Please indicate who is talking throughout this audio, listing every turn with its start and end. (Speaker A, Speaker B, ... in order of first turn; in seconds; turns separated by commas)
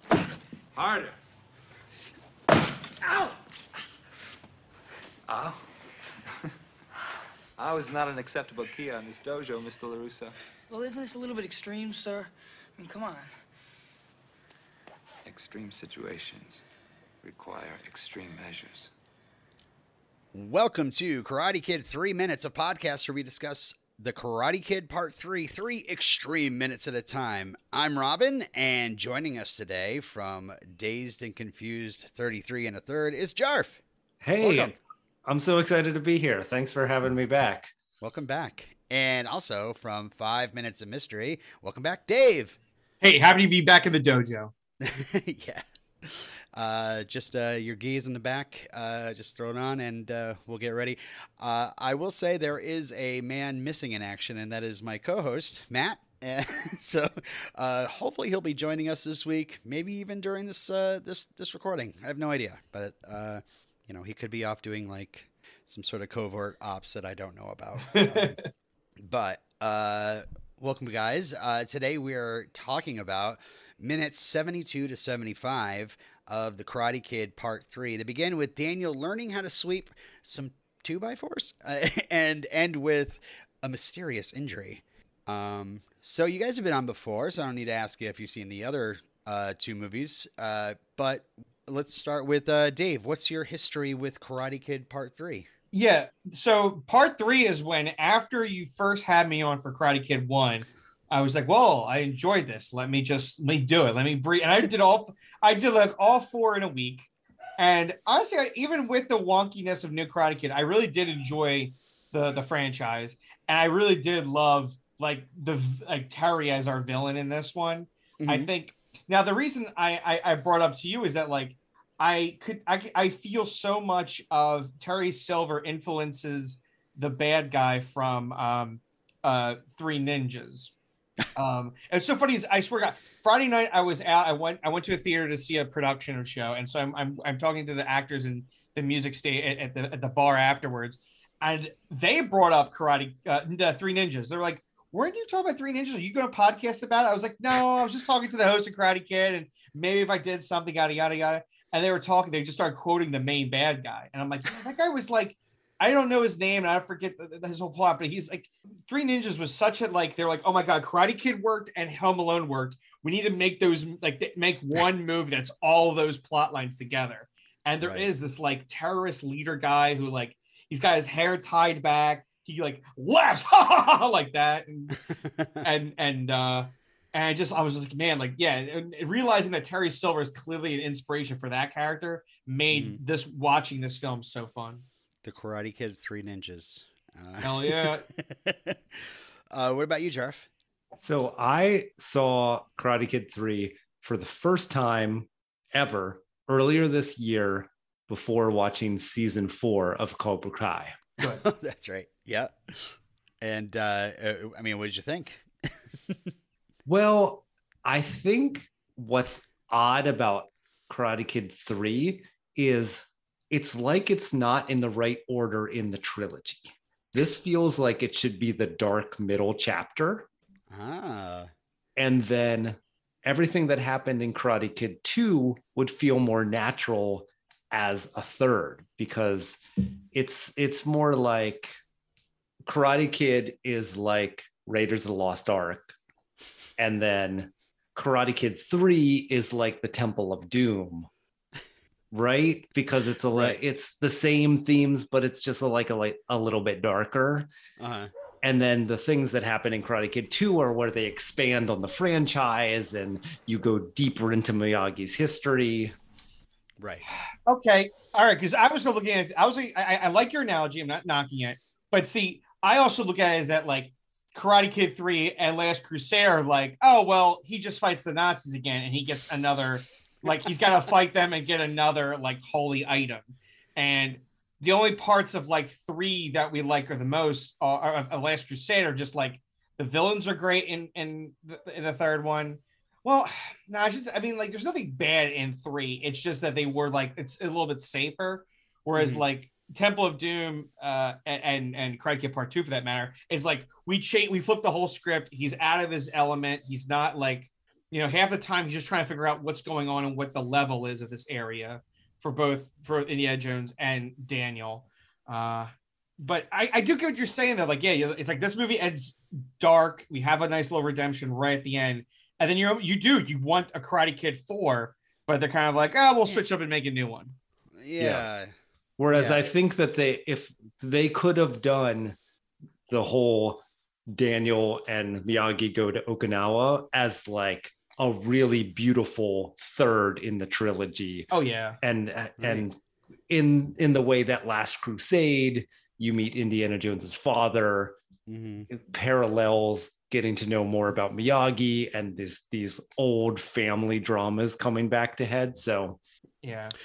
Speaker A: 0.7-1.1, Speaker A: 3.1-3.3, Speaker A: 5.3-5.6, Speaker A: 7.6-10.3, Speaker B: 10.7-13.3, Speaker A: 15.2-16.6, Speaker A: 17.2-18.9, Speaker C: 20.3-33.8, Speaker D: 34.2-37.7, Speaker C: 34.4-34.7, Speaker C: 38.0-42.6, Speaker E: 43.0-44.5, Speaker C: 44.8-68.4, Speaker E: 67.9-68.5, Speaker C: 69.0-95.5, Speaker E: 95.7-130.7, Speaker C: 118.2-118.5, Speaker E: 131.3-175.0, Speaker C: 167.8-168.1, Speaker C: 175.2-175.6, Speaker E: 175.6-184.8, Speaker C: 182.7-183.0, Speaker C: 185.2-190.5, Speaker E: 187.4-188.1, Speaker D: 191.0-201.0, Speaker C: 201.2-205.4, Speaker D: 206.8-220.3, Speaker C: 220.7-221.5, Speaker D: 221.9-229.6, Speaker D: 230.1-231.8, Speaker D: 232.6-235.9, Speaker D: 236.8-241.1, Speaker D: 242.1-247.5, Speaker C: 243.3-243.6, Speaker C: 247.8-248.1, Speaker D: 248.4-255.9, Speaker C: 256.8-257.0, Speaker E: 257.4-317.3, Speaker C: 288.9-289.2, Speaker C: 317.8-318.5, Speaker D: 318.0-318.2, Speaker D: 319.0-322.2, Speaker C: 319.1-319.4, Speaker D: 322.9-331.3, Speaker E: 331.3-331.8, Speaker D: 331.8-332.8, Speaker C: 332.4-332.6, Speaker D: 333.3-338.0, Speaker C: 338.3-338.7, Speaker D: 338.7-346.0, Speaker E: 346.4-346.7